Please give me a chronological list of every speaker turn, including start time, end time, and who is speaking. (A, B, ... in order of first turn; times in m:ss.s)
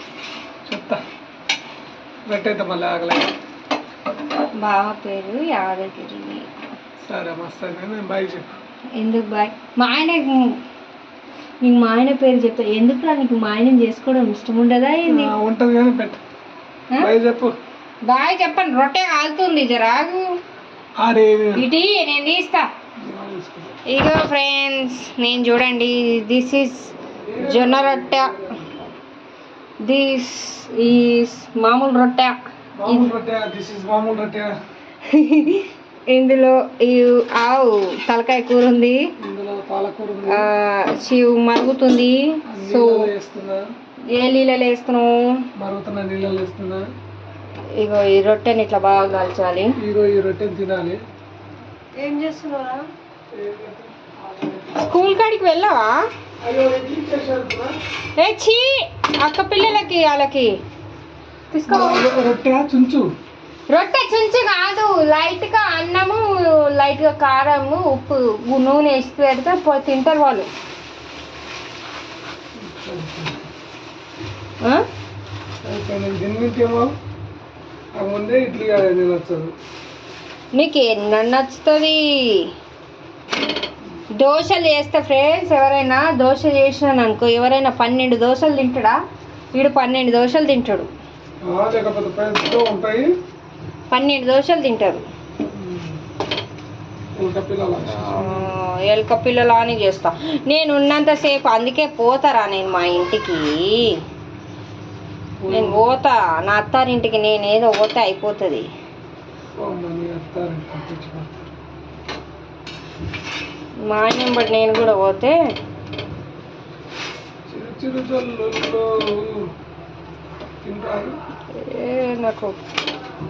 0:00.6-0:01.0 A
0:02.3-0:03.3 A
0:04.6-0:06.5 B
0:07.0-0:08.5 A
0:09.0-0:10.6 B
0:11.6-0:15.3 B
0:15.1-0:16.2 A
0:17.0-0:17.6 A
0:18.1-0:20.3 B
0:21.0-0:21.7 A
0:21.5-0:22.7 B
0:23.0-0:23.7 A
0:23.9-0:28.4 B
0:27.2-0:28.8 A
0:29.8-0:32.3 B
0:32.8-0:34.5 A
0:35.0-0:39.0 B
0:39.2-0:40.5 A
0:40.3-0:43.1 B
0:42.5-0:43.6 A
0:44.1-0:45.4 B
0:45.6-0:46.8 A
0:47.8-0:49.7 B
0:49.8-0:51.0 A
0:52.0-0:52.9 B
0:53.3-0:55.1 A
0:54.8-0:56.0 B
0:56.4-0:57.7 A
0:58.2-1:00.6 B
1:01.5-1:02.0 B
1:01.7-1:03.1 A
1:03.7-1:10.5 B
1:12.6-1:13.4 A
1:15.6-1:16.9 A
1:18.0-1:19.5 A
1:20.5-1:22.5 B
1:24.2-1:29.0 B
1:29.5-1:30.9 B
1:31.4-1:33.0 A
1:33.9-1:35.0 B
1:35.5-1:36.0 A
1:37.2-1:38.5 A
1:37.9-1:43.9 B
1:45.4-1:45.9 A
1:45.5-1:48.7 B
1:49.6-1:51.5 A
1:53.9-1:55.3 B
1:57.5-1:59.5 A
2:00.6-2:01.1 A
2:01.6-2:02.6 B